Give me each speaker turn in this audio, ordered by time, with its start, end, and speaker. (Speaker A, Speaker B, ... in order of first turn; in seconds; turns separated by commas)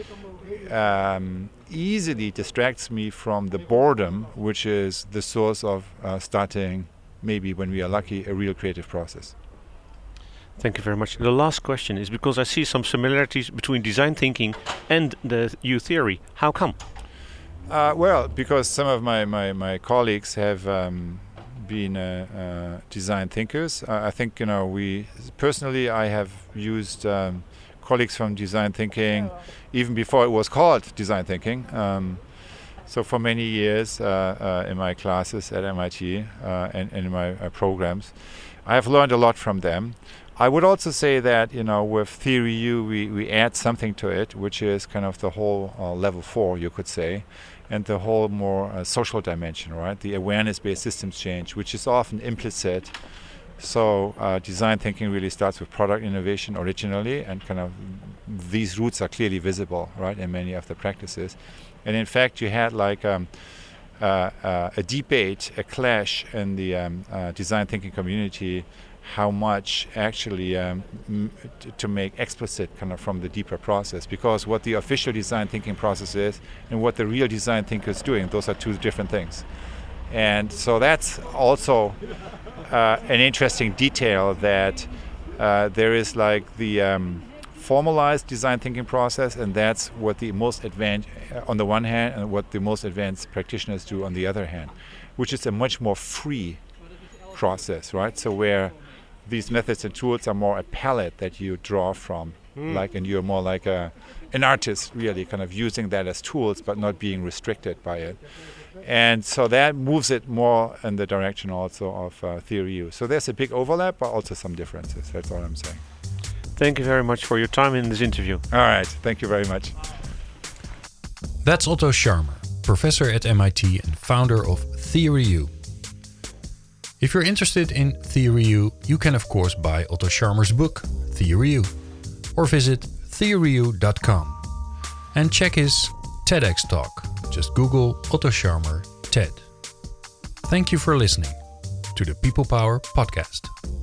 Speaker A: 0.6-9.3, Speaker B: 10.6-16.8, Speaker A: 17.7-32.2, Speaker A: 32.9-38.1, Speaker A: 38.6-53.0, Speaker A: 53.6-63.4, Speaker A: 64.0-79.5, Speaker A: 80.1-82.0, Speaker A: 82.7-96.6, Speaker A: 97.3-108.2, Speaker B: 102.6-102.8, Speaker A: 108.8-115.8, Speaker B: 116.5-118.4, Speaker A: 118.5-119.8, Speaker C: 121.4-125.5, Speaker C: 127.0-131.7, Speaker C: 132.3-134.4, Speaker C: 135.1-139.5, Speaker C: 140.4-141.4, Speaker C: 141.9-143.5